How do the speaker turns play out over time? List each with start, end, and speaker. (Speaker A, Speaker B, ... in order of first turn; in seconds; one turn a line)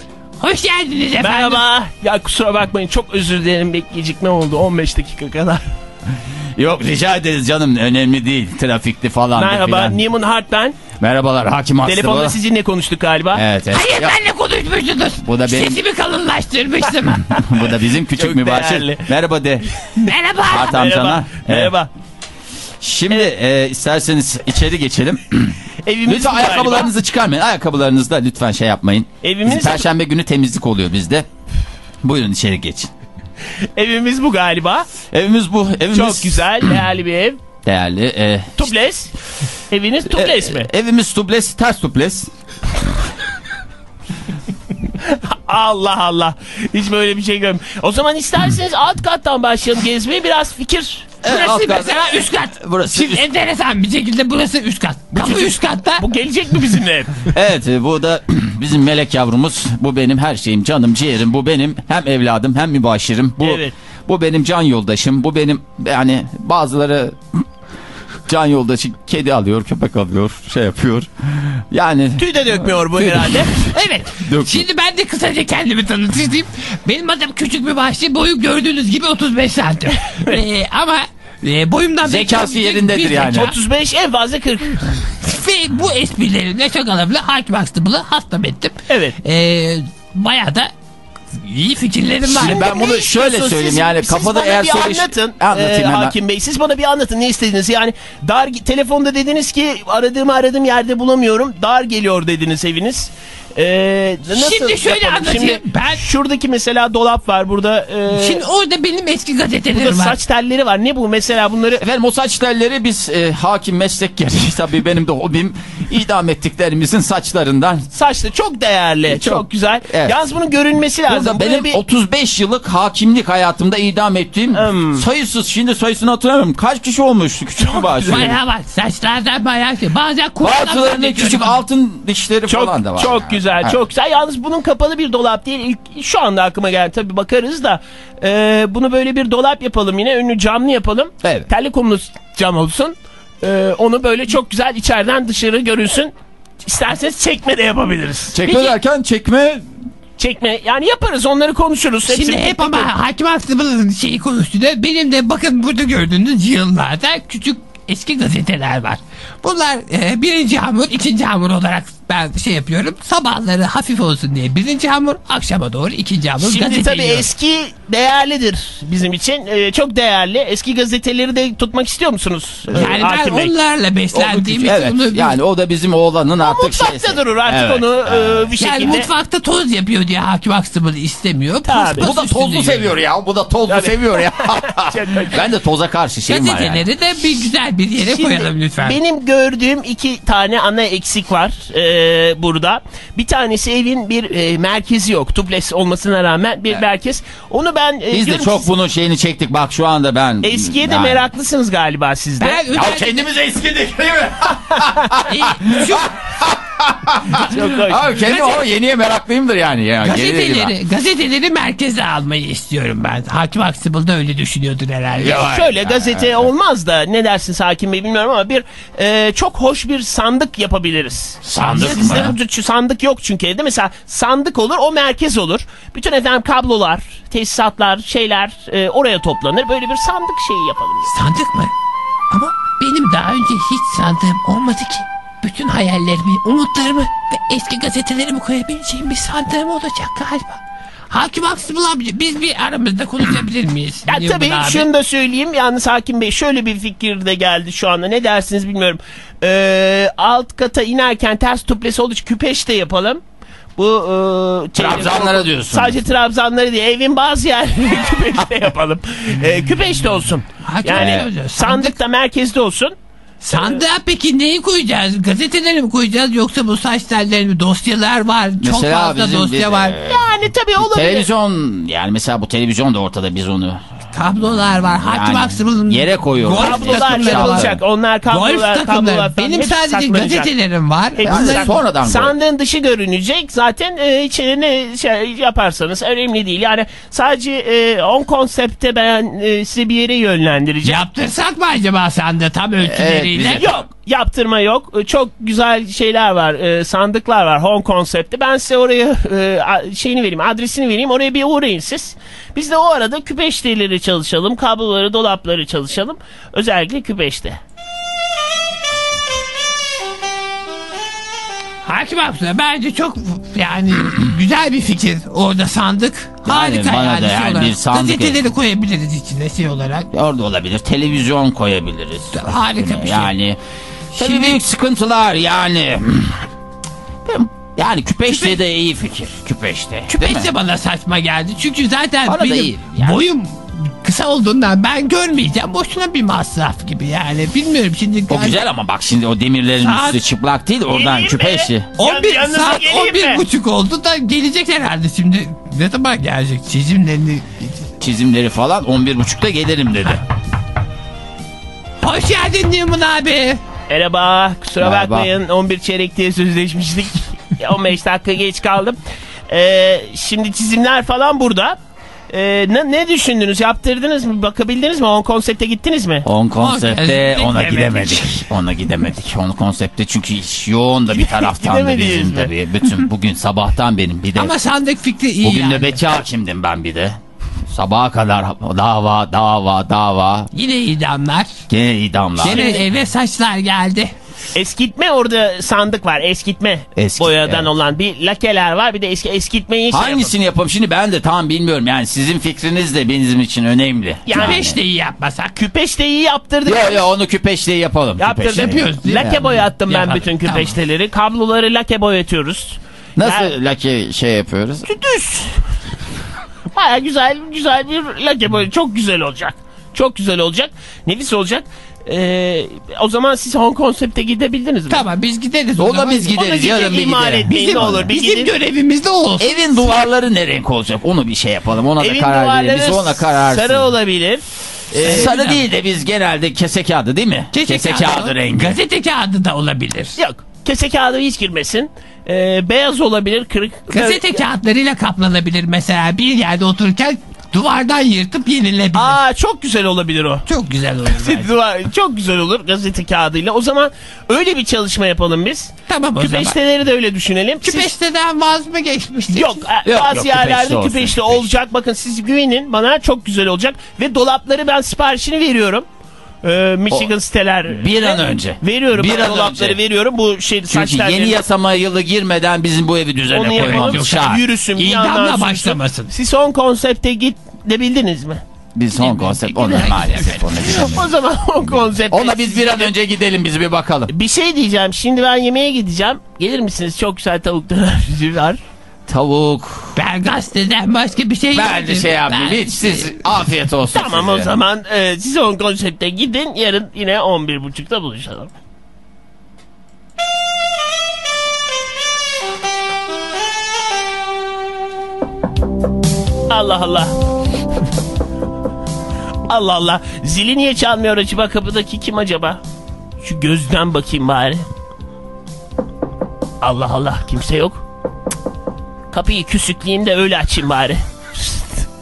Speaker A: 0.4-1.6
Speaker B: 1.2-5.6
Speaker C: 6.6-10.0
Speaker B: 9.3-10.8
Speaker C: 11.0-12.3
Speaker B: 11.8-13.4
Speaker C: 13.3-14.2
Speaker A: 13.7-17.4
Speaker C: 15.2-15.8
Speaker C: 17.3-19.7
Speaker B: 18.2-19.1
Speaker A: 20.0-20.8
Speaker C: 20.5-21.7
Speaker B: 20.6-21.9
Speaker C: 22.8-31.3
Speaker B: 25.8-26.9
Speaker B: 29.2-29.9
Speaker C: 32.0-32.9
Speaker B: 33.8-34.9
Speaker C: 35.1-36.6
Speaker B: 35.9-37.4
Speaker C: 37.6-38.7
Speaker B: 38.6-39.1
Speaker B: 39.7-40.7
Speaker C: 40.1-42.3
Speaker B: 45.0-51.3
Speaker C: 51.2-53.3
Speaker A: 51.2-56.0
Speaker B: 55.1-57.3
Speaker C: 57.3-67.2
Speaker B: 63.4-63.7
Speaker C: 68.3-73.5
Speaker B: 72.2-73.7
Speaker A: 73.7-83.5
Speaker C: 74.2-74.6
Speaker C: 82.0-83.5
Speaker B: 83.3-84.8
Speaker A: 85.2-90.7
Speaker B: 88.9-89.2
Speaker A: 91.4-92.8
Speaker C: 92.2-96.1
Speaker B: 92.3-108.4
Speaker A: 104.3-106.0
Speaker A: 108.1-110.2
Speaker B: 109.7-111.8
Speaker C: 111.8-117.8
Speaker B: 117.9-121.8
Speaker C: 119.1-120.2
Speaker C: 121.1-128.3
Speaker B: 124.5-125.0
Speaker B: 127.6-128.3
Speaker A: 128.1-131.6
Speaker C: 130.4-133.8
Speaker B: 132.5-146.1
Speaker C: 141.2-141.5
Speaker B: 146.6-148.7
Speaker C: 148.3-149.7
Speaker B: 150.2-152.9
Speaker A: 152.1-167.3
Speaker B: 166.4-173.5
Speaker C: 172.7-173.1
Speaker A: 172.7-175.4
Speaker C: 174.1-178.5
Speaker B: 176.4-179.1
Speaker A: 178.6-182.9
Speaker B: 181.7-182.1
Speaker C: 182.0-186.8
Speaker B: 183.7-185.4
Speaker A: 186.3-189.0
Speaker B: 188.0-198.7
Speaker C: 198.1-201.2
Speaker B: 200.4-202.6
Speaker A: 202.4-203.2
Speaker C: 202.7-210.7
Speaker B: 204.8-205.1
Speaker A: 205.2-206.1
Speaker B: 207.3-208.2
Speaker A: 208.2-208.6
Speaker A: 210.0-215.5
Speaker C: 215.2-216.5
Speaker B: 215.2-231.1
Speaker C: 221.4-222.3
Speaker A: 221.6-222.3
Speaker A: 231.1-231.7
Speaker A: 232.3-244.9
Speaker B: 244.1-253.2
Speaker B: 253.8-262.9
Speaker C: 254.8-256.0
Speaker A: 260.6-261.9
Speaker C: 260.9-261.3
Speaker A: 263.4-269.9
Speaker C: 268.6-270.3
Speaker B: 270.1-271.3
Speaker C: 270.8-273.8
Speaker A: 274.1-277.7
Speaker C: 275.1-277.8
Speaker B: 276.6-280.5
Speaker A: 278.3-281.7
Speaker B: 281.1-291.0
Speaker C: 281.2-282.3
Speaker A: 290.8-293.7
Speaker C: 292.8-293.8
Speaker B: 293.6-307.6
Speaker A: 311.9-320.1
Speaker C: 316.4-318.4
Speaker C: 320.1-323.6
Speaker A: 322.3-323.3
Speaker A: 324.1-324.6
Speaker C: 324.1-326.4
Speaker C: 327.2-330.5
Speaker A: 328.3-328.6
Speaker A: 330.1-338.6
Speaker C: 332.2-333.2
Speaker C: 338.3-341.9
Speaker A: 339.8-340.2
Speaker B: 340.9-343.4
Speaker A: 342.0-347.7
Speaker C: 348.0-350.2
Speaker A: 352.0-353.6
Speaker B: 353.9-359.0
Speaker C: 354.8-355.3
Speaker B: 359.5-361.8
Speaker B: 362.3-366.3
Speaker C: 366.2-374.5
Speaker A: 366.6-368.4
Speaker B: 371.1-372.5
Speaker A: 374.4-376.0
Speaker C: 375.4-377.2
Speaker C: 377.7-380.5
Speaker A: 380.5-381.6
Speaker C: 381.7-382.8
Speaker A: 382.4-384.1
Speaker B: 382.4-382.8
Speaker B: 384.5-390.3
Speaker C: 387.0-387.7
Speaker C: 389.9-394.7
Speaker B: 394.3-394.6
Speaker A: 394.3-395.6
Speaker B: 395.6-397.1
Speaker C: 396.6-399.5
Speaker B: 398.2-403.5
Speaker A: 398.5-400.8
Speaker C: 403.2-404.9
Speaker B: 404.9-405.6
Speaker B: 406.7-415.1
Speaker A: 414.9-416.4
Speaker C: 415.8-418.1
Speaker B: 416.3-418.5
Speaker A: 417.5-419.9
Speaker C: 419.4-423.9
Speaker B: 422.0-424.4
Speaker C: 424.9-428.8
Speaker A: 425.0-425.6
Speaker A: 427.5-430.1
Speaker B: 430.2-434.4
Speaker A: 433.9-439.2
Speaker B: 438.9-440.4
Speaker A: 440.4-441.5
Speaker B: 441.1-447.9
Speaker A: 445.9-446.6
Speaker A: 447.6-449.6
Speaker B: 449.3-455.9
Speaker C: 449.8-451.5
Speaker B: 456.4-461.4
Speaker C: 457.7-459.8
Speaker C: 460.7-464.4
Speaker B: 463.3-468.4
Speaker A: 463.5-466.1
Speaker C: 468.7-471.1
Speaker A: 468.9-470.4
Speaker B: 470.6-472.9
Speaker C: 471.7-474.1
Speaker B: 474.1-478.6
Speaker C: 479.1-480.0
Speaker A: 479.9-483.2
Speaker C: 481.5-484.5
Speaker B: 483.9-488.5
Speaker B: 496.5-497.1
Speaker B: 499.5-502.6
Speaker B: 503.2-504.6
Speaker B: 506.6-507.8
Speaker B: 509.1-511.8